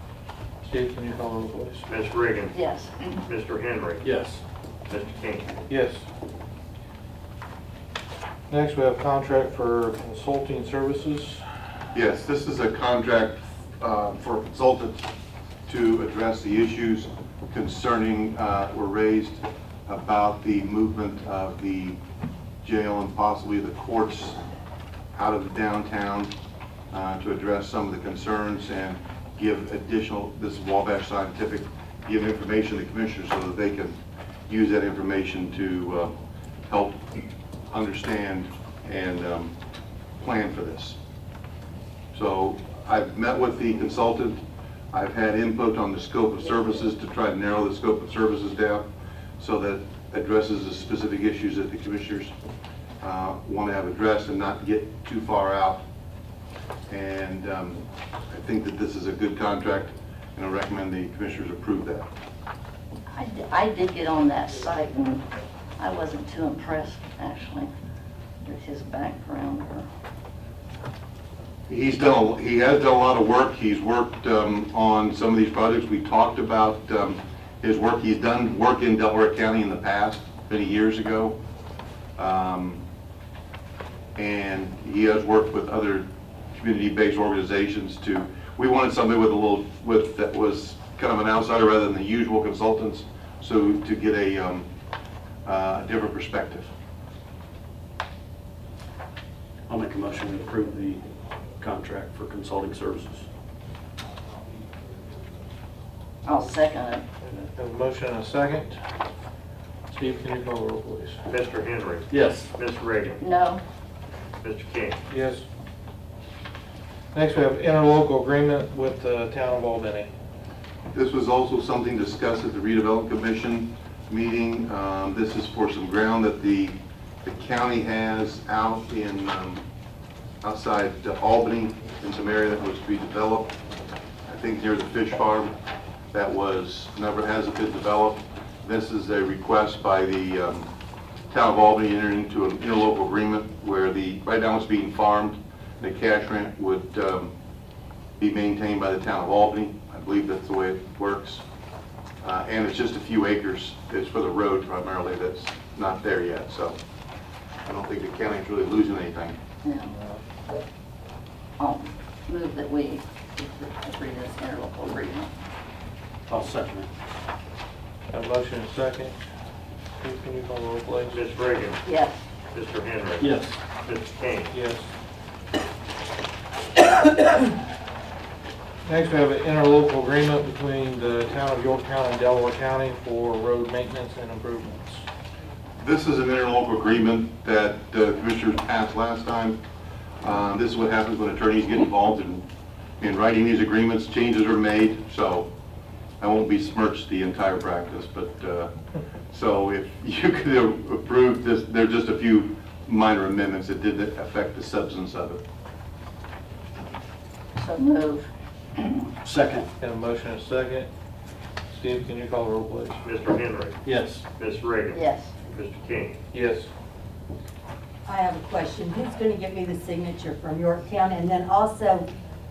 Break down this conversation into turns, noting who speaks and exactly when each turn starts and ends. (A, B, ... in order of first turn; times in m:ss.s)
0:00.6-0:01.9 A
0:01.9-0:02.6 B
0:02.5-0:03.1 C
0:03.2-0:04.0 B
0:04.0-0:04.4 D
0:04.9-0:05.5 B
0:05.7-0:06.0 A
0:08.5-0:11.4 A
0:11.9-0:15.1 E
0:15.7-0:22.0 E
0:22.6-0:24.4 E
0:25.2-0:26.3 E
0:26.9-0:34.0 E
0:34.5-0:36.2 E
0:36.7-0:37.1 E
0:37.7-0:39.5 E
0:40.2-0:41.0 E
0:42.1-0:48.9 E
0:49.4-0:52.3 E
0:53.0-0:55.8 E
0:56.9-1:02.1 E
1:03.1-1:05.2 C
1:05.8-1:07.7 C
1:08.5-1:09.9 C
1:11.7-1:21.4 E
1:22.2-1:22.8 E
1:24.2-1:34.7 E
1:35.4-1:36.7 E
1:39.7-1:41.0 D
1:41.6-1:43.3 D
1:46.2-1:47.0 C
1:47.2-1:48.8 A
1:49.9-1:51.2 A
1:51.3-1:53.2 B
1:52.1-1:52.5 D
1:53.2-1:53.6 C
1:54.4-1:55.0 B
1:55.1-1:55.4 A
1:57.1-2:00.1 A
2:00.9-2:09.6 E
2:10.4-2:13.6 E
2:14.3-2:15.5 E
2:16.1-2:20.7 E
2:21.3-2:27.3 E
2:28.2-2:31.4 E
2:32.2-2:36.8 E
2:37.6-2:39.4 E
2:39.6-2:39.9 C
2:41.6-2:45.3 C
2:46.3-2:46.9 D
2:48.1-2:49.2 A
2:50.0-2:51.2 A
2:51.1-2:51.8 B
2:51.9-2:52.2 C
2:52.5-2:53.3 B
2:53.2-2:53.6 D
2:53.8-2:54.6 B
2:54.5-2:54.9 A
2:58.8-3:05.0 A
3:05.8-3:09.6 E
3:10.2-3:12.4 E
3:13.0-3:15.5 E
3:16.2-3:18.7 E
3:19.3-3:25.4 E
3:27.6-3:28.3 C
3:29.2-3:29.7 D
3:29.8-3:30.9 A
3:31.7-3:33.0 A
3:33.0-3:33.8 B
3:33.8-3:34.2 D
3:34.4-3:36.2 B
3:34.9-3:35.3 C
3:36.3-3:36.7 A
3:38.0-3:42.1 F